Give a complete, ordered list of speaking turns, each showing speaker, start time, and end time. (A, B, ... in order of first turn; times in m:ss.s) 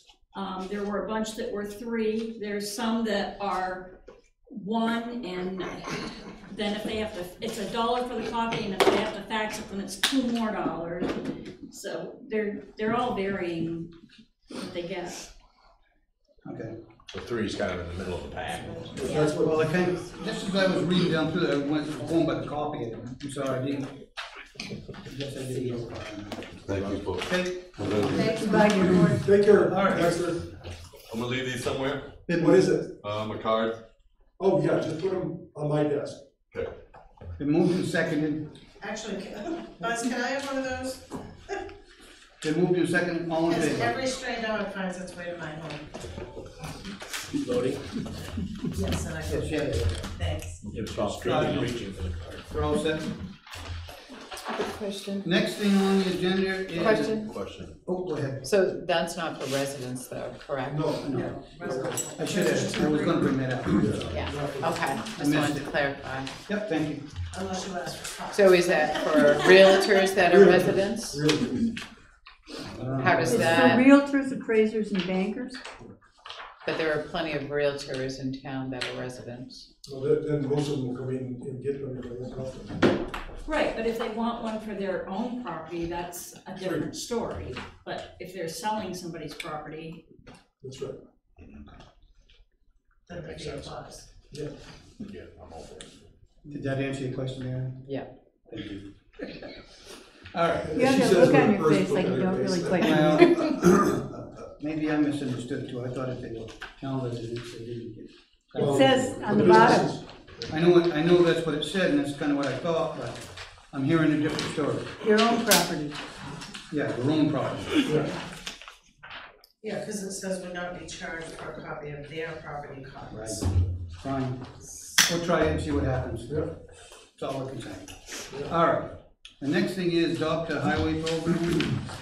0:00.3-0:04.0 A
0:04.5-0:11.2 A
0:11.7-0:13.9 A
0:14.6-0:15.2 A
0:16.4-0:16.7 B
0:17.1-0:19.1 C
0:18.5-0:20.2 D
0:19.0-0:19.6 E
0:19.4-0:24.0 B
0:25.0-0:30.2 B
0:26.6-0:28.2 F
0:28.4-0:29.3 G
0:29.1-0:30.4 E
0:31.1-0:32.1 F
0:32.3-0:32.8 B
0:32.4-0:32.9 E
0:33.0-0:33.8 F
0:34.4-0:36.2 E
0:37.4-0:38.5 B
0:38.8-0:41.6 D
0:42.4-0:44.0 B
0:43.4-0:45.9 D
0:47.3-0:48.0 H
0:48.7-0:50.7 D
0:49.3-0:50.0 B
0:50.6-0:52.5 H
0:50.9-0:51.7 C
0:51.2-0:51.6 B
0:52.5-0:53.1 B
0:54.5-0:55.2 I
0:55.2-0:58.5 B
0:56.7-0:57.4 I
0:57.3-0:57.7 C
0:58.4-1:00.9 I
1:00.6-1:02.0 E
1:01.0-1:01.4 B
1:01.1-1:03.3 D
1:02.1-1:04.0 B
1:03.8-1:05.0 E
1:04.1-1:06.3 I
1:05.1-1:05.9 B
1:06.5-1:07.0 B
1:07.3-1:10.1 D
1:08.3-1:11.2 I
1:10.2-1:11.8 E
1:12.7-1:13.2 B
1:13.0-1:13.8 I
1:13.1-1:15.6 G
1:16.6-1:19.7 I
1:19.8-1:22.9 E
1:23.4-1:30.0 A
1:26.6-1:26.8 E
1:30.6-1:31.0 E
1:31.4-1:31.7 C
1:33.1-1:34.0 D
1:33.1-1:33.8 C
1:35.0-1:36.0 C
1:36.4-1:37.9 B
1:38.5-1:38.9 B
1:40.3-1:40.7 B
1:40.7-1:43.0 E
1:40.7-1:43.2 G
1:42.8-1:49.3 B
1:48.6-1:50.5 E
1:48.6-1:49.9 G
1:50.5-1:55.0 B
1:55.0-1:56.0 G
1:56.7-1:58.0 B
1:57.8-1:58.1 E
1:59.6-2:03.5 D
2:03.1-2:04.4 B
2:05.0-2:06.4 B
2:07.1-2:11.8 B